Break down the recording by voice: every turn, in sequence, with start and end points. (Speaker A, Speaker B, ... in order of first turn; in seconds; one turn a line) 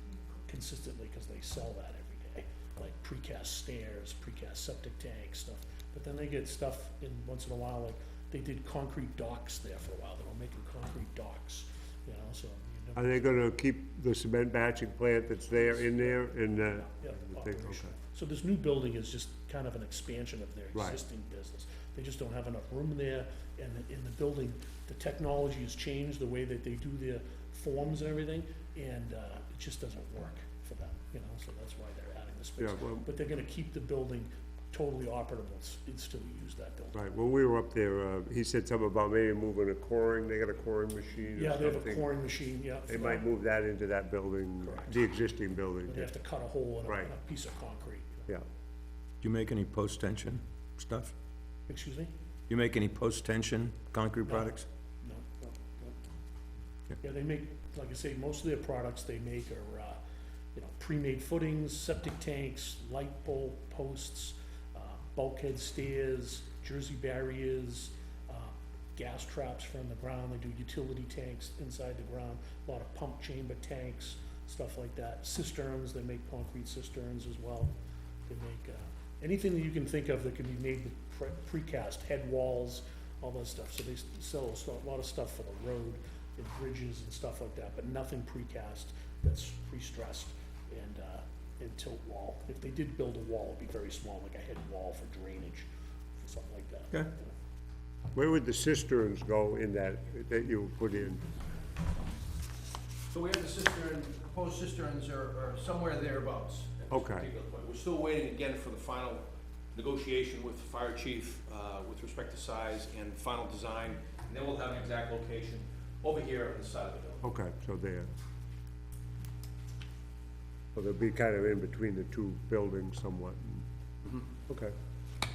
Speaker A: 0.5-13.3
Speaker B: 12.9-17.9
Speaker A: 15.5-37.0
Speaker B: 32.6-33.0
Speaker B: 36.9-42.1
Speaker A: 41.4-43.2
Speaker B: 42.9-46.1
Speaker A: 44.6-45.0
Speaker A: 45.9-48.2
Speaker B: 46.9-47.1
Speaker C: 49.2-51.1
Speaker A: 51.7-52.1
Speaker C: 52.5-54.6
Speaker A: 54.2-54.5
Speaker A: 55.0-56.0
Speaker A: 57.0-60.0
Speaker A: 60.5-77.7
Speaker A: 78.3-97.3
Speaker B: 98.1-101.2
Speaker D: 103.1-117.2
Speaker B: 106.9-107.3
Speaker B: 117.2-118.1
Speaker B: 120.7-123.7
Speaker B: 124.5-124.7